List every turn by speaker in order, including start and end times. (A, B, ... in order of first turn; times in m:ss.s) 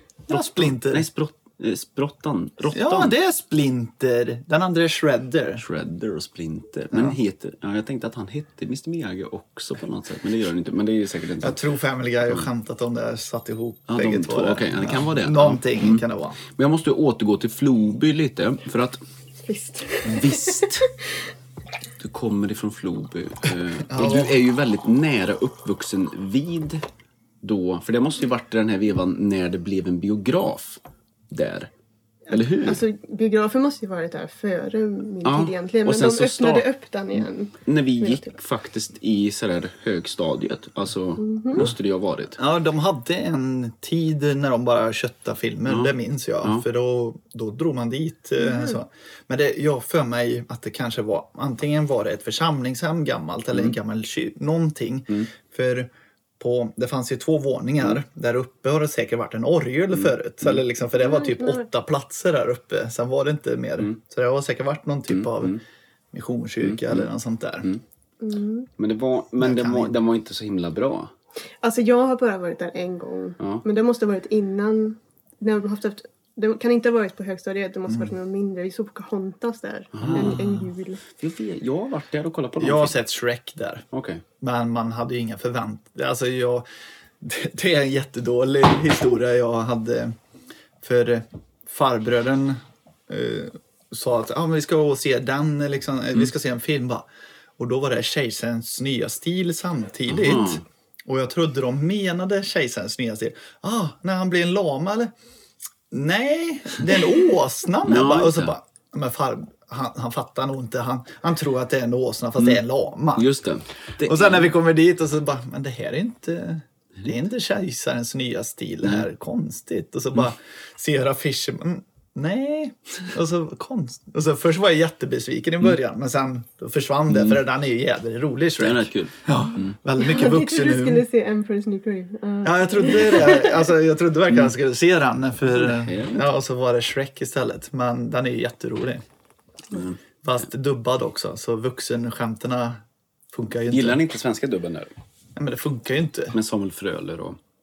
0:00.3-0:03.1 A
0:00.3-0:01.1 B
0:02.7-0:05.6 B
0:05.6-0:11.6 A
0:06.9-0:07.2 B
0:11.4-0:16.4 B
0:13.9-0:16.0 A
0:16.6-0:19.0 A
0:19.4-0:20.9 C
0:20.0-0:20.9 A
0:22.0-0:26.8 A
0:23.9-0:24.4 B
0:27.4-0:31.7 A
0:32.3-0:38.4 C
0:32.3-0:32.8 A
0:35.2-0:36.7 A
0:37.2-0:42.4 A
0:41.2-0:41.7 C
0:42.4-1:05.6 B
0:45.7-0:45.9 A
0:48.4-0:48.8 C
1:00.0-1:00.6 A
1:01.0-1:01.7 C
1:05.1-1:05.6 A
1:06.1-1:07.7 B
1:06.6-1:07.1 A
1:08.2-1:08.7 C
1:08.8-1:11.1 A
1:09.4-1:10.0 B
1:11.6-1:21.0 C
1:19.9-1:20.5 A
1:20.0-1:20.7 B
1:21.1-1:23.0 A
1:22.6-1:23.8 B
1:23.9-1:24.2 A
1:24.4-1:26.6 B
1:27.2-1:30.2 B
1:30.8-1:37.1 B
1:37.6-1:45.1 B
1:40.1-1:40.6 A
1:45.9-1:53.3 B
1:47.8-1:48.6 A
1:53.2-1:54.5 A
1:54.0-2:11.0 B
2:07.1-2:07.4 A
2:08.6-2:09.8 A
2:10.0-2:13.6 C
2:12.4-2:19.0 B
2:15.5-2:16.3 A
2:20.2-2:22.8 B
2:23.3-2:24.0 B
2:23.7-2:24.9 A
2:25.4-2:26.4 B
2:26.3-2:27.4 A